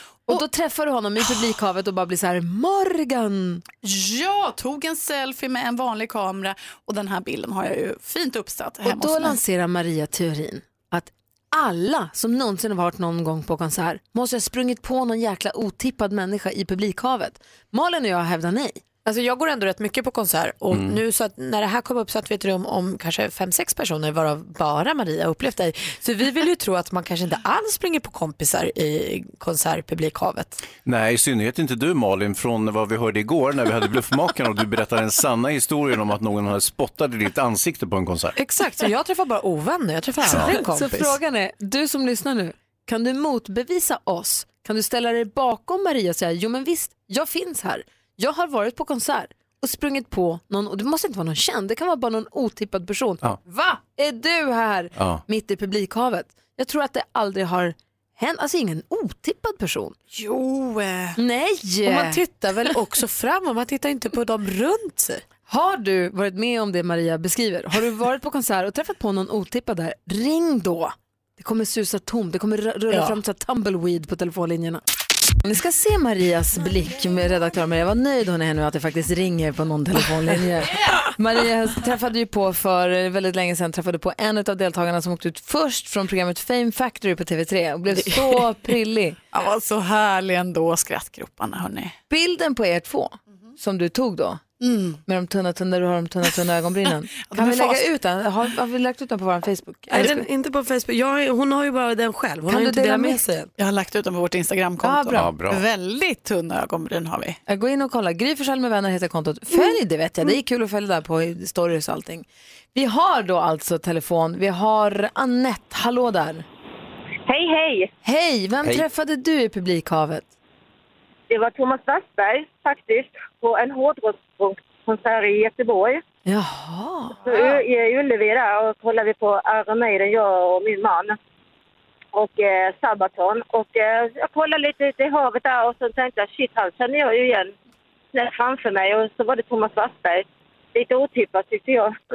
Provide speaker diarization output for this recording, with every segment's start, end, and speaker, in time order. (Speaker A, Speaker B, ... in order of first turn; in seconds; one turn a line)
Speaker A: 0.3-3.6
Speaker B: 3.8-9.4
Speaker A: 8.8-18.8
Speaker C: 19.0-30.6
Speaker D: 20.7-21.0
Speaker D: 30.8-38.3
Speaker C: 38.4-41.1
Speaker D: 40.2-40.5
Speaker A: 40.3-60.0
Speaker D: 55.0-55.2
Speaker B: 60.1-61.1
Speaker A: 61.1-62.2
Speaker C: 61.8-65.2
Speaker A: 65.5-74.8
Speaker C: 72.9-73.2
Speaker A: 75.4-89.2
Speaker C: 87.9-88.4
Speaker B: 89.3-91.9
Speaker A: 92.1-94.4
Speaker B: 94.6-95.0
Speaker A: 95.0-100.2
Speaker B: 97.3-97.9
Speaker C: 99.9-103.5
Speaker A: 102.5-103.2
Speaker B: 103.6-107.4
Speaker A: 104.8-105.3
Speaker D: 105.1-105.6
Speaker A: 107.5-116.4
Speaker E: 117.3-117.9
Speaker A: 118.0-120.3
Speaker E: 121.3-126.0
Speaker A: 126.2-127.6
Speaker E: 127.2-131.2
Speaker E: 132.1-137.5
Speaker E: 138.1-141.9